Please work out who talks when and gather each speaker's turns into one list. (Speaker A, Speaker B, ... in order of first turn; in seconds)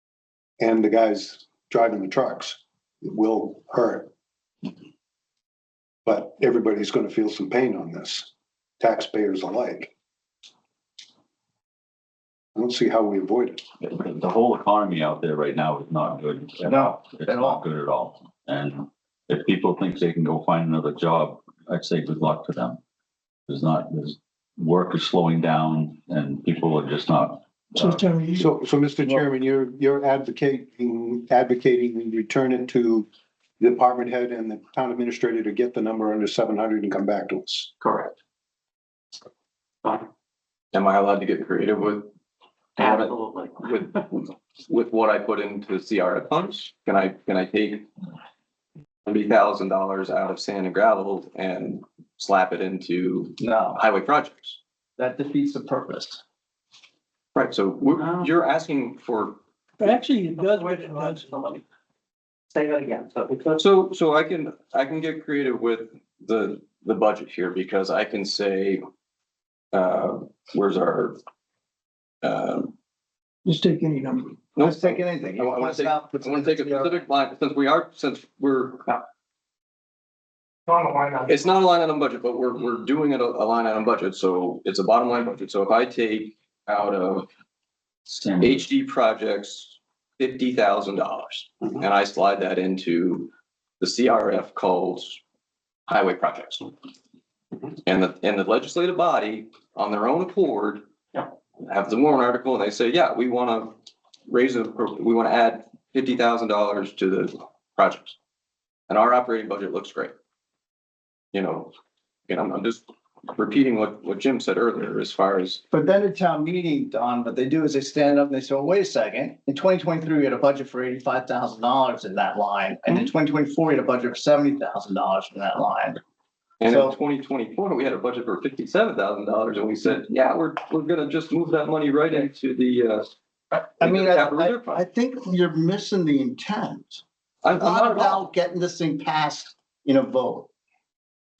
Speaker A: 0.6-4.1, 6.0-9.9, 12.5-13.6, 28.4-33.1, 33.6-37.7
Speaker B: 13.8-22.8, 23.5-28.0, 88.1-88.6
Speaker C: 16.6-17.6, 53.4-53.8, 55.0-56.2, 74.6-77.1, 115.7-126.0, 126.7-127.0, 133.5-140.5
Speaker D: 27.8-28.4, 59.8-61.3, 73.4-74.3
Speaker E: 37.8-38.2, 42.8-44.1, 58.0-58.3, 60.2-61.6, 62.5-63.6
Speaker F: 40.7-42.1, 42.8-47.9, 49.0-54.6, 57.3-59.4, 63.6-68.8, 69.7-71.2, 72.2-72.7, 74.5-79.0, 81.2-87.3, 88.4-95.2, 95.9-96.7, 97.8-103.8, 104.3-108.2, 108.9-110.1, 111.3-111.7, 112.3-115.6, 126.6-133.1, 133.8-134.8, 137.4-138.2